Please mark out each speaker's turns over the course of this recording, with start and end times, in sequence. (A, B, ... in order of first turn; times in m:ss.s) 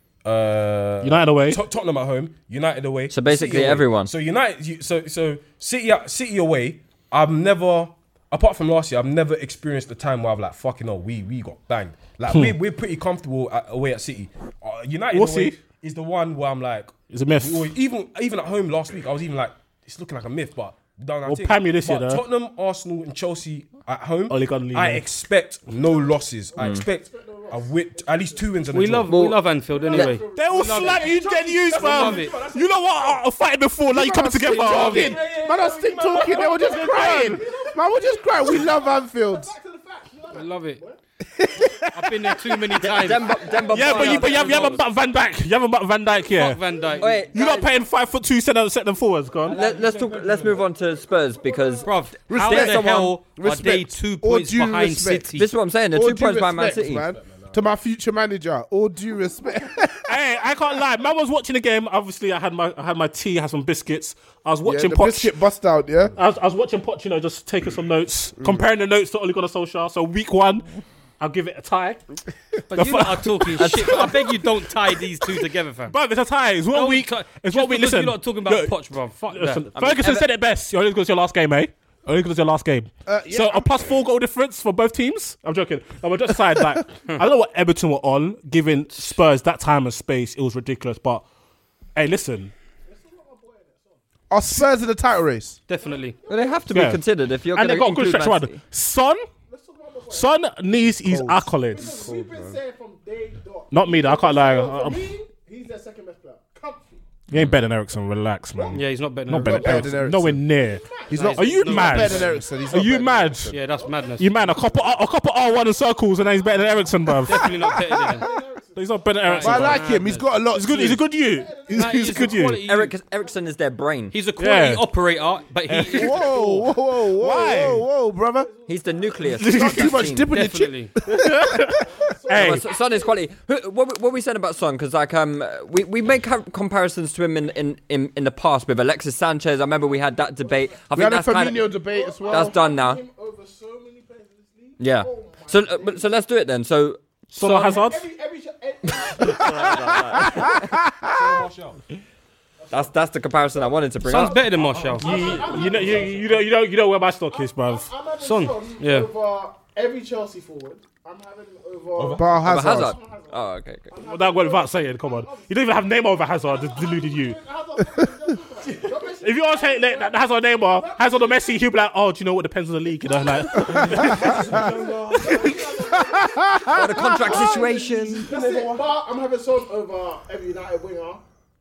0:00.2-0:29.4 A
0:01.0-0:01.6 B
0:03.1-0:04.1 C
0:12.3-0:12.6 B
0:15.1-0:15.6 B
0:17.1-0:17.7 B
0:21.2-0:22.2 B
0:24.3-0:25.1 B
0:25.9-0:27.7 D
0:26.6-0:26.8 C
0:28.7-0:31.2 E
0:29.7-0:31.0 D
0:30.2-0:35.2 B
0:30.8-0:33.3 A
0:31.7-0:32.4 E
0:33.9-0:39.5 F
0:34.4-0:37.4 A
0:36.4-0:41.0 D
0:36.9-0:37.4 B
0:40.3-0:40.8 E
0:41.9-0:43.4 E
0:42.8-0:44.8 C
0:43.4-0:44.2 D
0:43.7-0:46.6 B
0:43.9-0:44.7 A
0:46.3-0:47.2 E
0:46.6-0:47.0 D
0:47.0-0:47.8 C
0:47.3-0:49.6 B
0:49.4-0:50.7 A
0:49.5-0:53.2 C
0:51.3-0:52.0 D
0:51.8-0:55.5 E
0:52.3-0:55.3 F
0:55.3-0:57.1 C
0:55.9-1:00.2 F
0:57.0-0:57.6 A
1:00.1-1:05.3 B
1:04.6-1:06.1 F
1:06.2-1:10.6 B
1:11.2-1:12.0 B
1:12.7-1:15.9 E
1:12.7-1:14.1 B
1:13.6-1:14.3 C
1:15.9-1:18.8 B
1:16.7-1:19.7 E
1:19.3-1:31.2 B
1:19.7-1:20.3 C
1:23.0-1:23.9 F
1:32.0-1:32.5 B
1:32.9-1:34.0 D
1:34.3-1:35.6 F
1:35.7-1:36.2 E
1:35.7-1:36.6 D
1:36.2-1:38.6 C
1:36.7-1:37.0 B
1:37.5-1:39.2 B
1:39.5-1:40.3 D
1:40.1-1:42.1 B
1:40.9-1:42.6 F
1:41.7-1:47.0 D
1:43.7-1:45.1 B
1:47.3-1:53.5 B
1:48.5-1:48.8 D
1:48.7-1:49.9 E
1:49.4-1:50.4 F
1:50.7-1:51.8 D
1:51.1-1:53.6 F
1:51.2-1:52.3 E
1:53.5-1:54.3 E
1:53.7-1:55.0 D
1:54.2-1:57.7 B
1:55.8-1:59.9 D
1:57.2-1:58.3 E
1:58.8-1:59.9 B
1:59.2-2:00.2 E
1:59.4-2:01.0 F
2:00.5-2:02.6 B
2:01.1-2:02.5 D
2:01.7-2:03.0 E
2:02.6-2:04.2 C
2:04.1-2:06.4 E
2:04.4-2:04.8 B
2:05.7-2:06.4 B
2:05.9-2:08.5 F
2:07.1-2:07.8 B
2:07.4-2:09.5 D
2:08.6-2:10.3 C
2:09.3-2:10.1 B
2:09.4-2:11.7 F
2:10.3-2:10.9 E
2:11.1-2:12.6 B
2:11.7-2:13.2 D
2:12.3-2:21.7 C
2:20.2-2:20.8 D
2:20.9-2:22.6 F
2:21.7-2:26.1 D
2:22.2-2:23.0 C
2:24.8-2:27.8 C
2:27.3-2:28.0 B
2:27.6-2:30.3 D
2:29.2-2:30.7 C
2:30.2-2:31.5 F
2:31.0-2:31.8 A
2:32.6-2:33.0 D
2:32.7-2:34.4 C
2:34.0-2:35.4 E
2:34.3-2:36.5 A
2:35.0-2:36.4 D
2:35.5-2:37.9 B
2:37.3-2:51.7 D
2:38.2-2:39.1 E
2:41.9-2:42.6 A
2:42.2-2:42.9 F
2:42.4-2:44.0 C
2:44.0-2:47.4 B
2:48.6-2:49.0 A
2:49.2-2:54.6 B
2:53.1-3:01.2 D
2:53.5-2:55.7 A
2:55.2-2:55.6 B
2:56.0-2:57.2 F
2:56.7-2:58.3 C
2:57.2-2:58.9 A